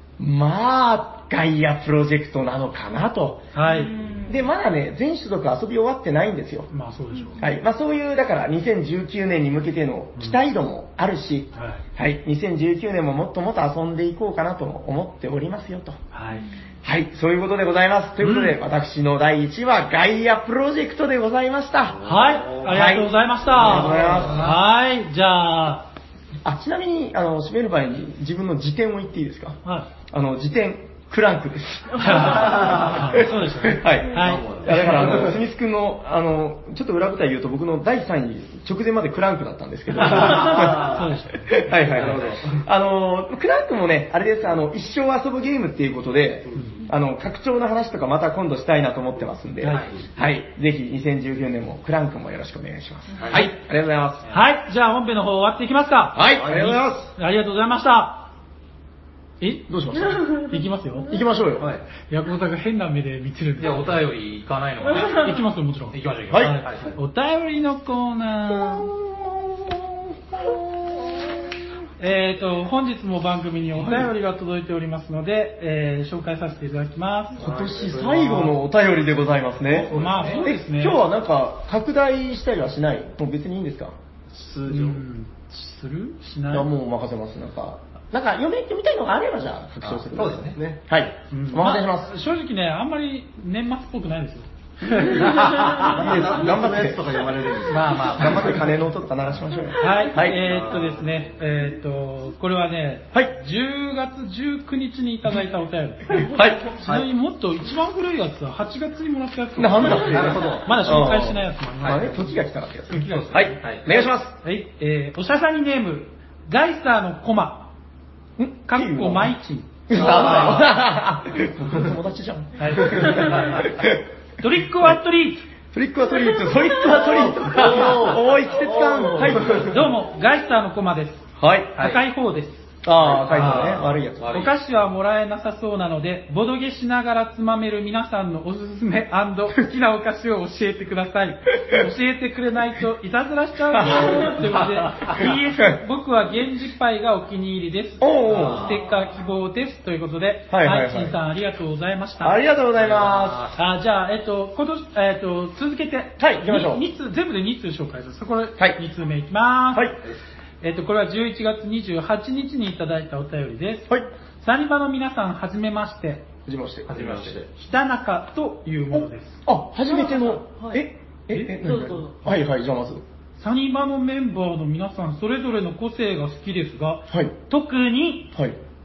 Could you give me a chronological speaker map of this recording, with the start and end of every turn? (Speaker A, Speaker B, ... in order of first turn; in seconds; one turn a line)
Speaker A: 0.2-3.5
Speaker B: 3.5-3.9
Speaker C: 3.6-4.5
Speaker A: 4.3-6.7
Speaker B: 6.7-7.4
Speaker A: 7.4-16.0
Speaker B: 11.5-11.8
Speaker B: 16.1-16.4
Speaker A: 16.8-24.5
Speaker B: 18.2-18.6
Speaker D: 21.9-22.8
Speaker B: 22.0-25.9
Speaker D: 23.6-24.5
Speaker E: 23.9-24.6
Speaker A: 26.4-54.2
Speaker C: 31.9-33.0
Speaker B: 32.0-35.3
Speaker D: 32.3-32.8
Speaker D: 34.2-35.4
Speaker D: 40.0-41.0
Speaker B: 40.2-41.6
Speaker D: 41.9-42.6
Speaker E: 41.9-42.4
Speaker D: 46.5-46.8
Speaker E: 49.6-49.9
Speaker D: 53.2-53.4
Speaker B: 54.3-56.2
Speaker A: 56.1-57.1
Speaker D: 56.4-56.8
Speaker B: 57.1-58.3
Speaker B: 59.4-61.1
Speaker A: 59.7-60.4
Speaker A: 61.1-61.7
Speaker D: 61.6-61.8
Speaker B: 62.1-64.0
Speaker E: 63.6-65.4
Speaker B: 65.0-68.9
Speaker E: 65.9-66.9
Speaker A: 66.3-66.6
Speaker A: 68.5-71.5
Speaker B: 72.0-77.5
Speaker A: 73.7-74.1
Speaker A: 77.3-83.9
Speaker D: 77.4-78.2
Speaker B: 78.0-78.5
Speaker E: 78.1-78.4
Speaker D: 79.7-80.3
Speaker E: 79.9-80.4
Speaker B: 79.9-81.0
Speaker D: 84.3-85.0
Speaker B: 84.6-86.7
Speaker A: 86.5-92.1
Speaker E: 90.1-90.6
Speaker D: 90.5-90.8
Speaker B: 91.3-95.8
Speaker A: 94.8-97.1
Speaker E: 95.1-96.0
Speaker D: 95.8-98.5
Speaker E: 97.7-98.7
Speaker A: 98.1-100.4
Speaker B: 99.8-117.7
Speaker D: 100.4-101.3
Speaker A: 106.2-106.7
Speaker D: 106.8-107.1
Speaker A: 109.5-114.3
Speaker E: 109.8-111.0
Speaker E: 111.8-112.1
Speaker E: 113.6-114.0
Speaker A: 118.4-119.3
Speaker B: 118.7-119.7
Speaker A: 119.9-124.0
Speaker E: 119.9-120.7
Speaker D: 119.9-120.7
Speaker B: 122.6-123.7
Speaker B: 124.4-125.4
Speaker A: 125.7-129.9
Speaker C: 126.5-127.0
Speaker D: 127.1-129.8
Speaker B: 129.6-132.7
Speaker A: 131.4-131.8
Speaker A: 132.8-134.4
Speaker E: 133.2-134.6
Speaker B: 133.3-133.6
Speaker B: 134.3-152.4
Speaker A: 143.7-144.4
Speaker A: 145.2-145.8
Speaker A: 148.0-148.8
Speaker E: 148.3-148.8
Speaker A: 150.5-151.2
Speaker A: 152.2-153.4
Speaker E: 152.7-153.6
Speaker B: 153.6-159.9
Speaker A: 156.2-156.8
Speaker A: 159.7-160.0
Speaker B: 160.6-166.2
Speaker A: 166.4-167.4
Speaker E: 166.9-167.5
Speaker B: 167.5-169.4
Speaker A: 168.9-173.0
Speaker C: 169.9-170.8
Speaker C: 171.6-172.1
Speaker B: 173.4-178.3
Speaker A: 177.1-177.3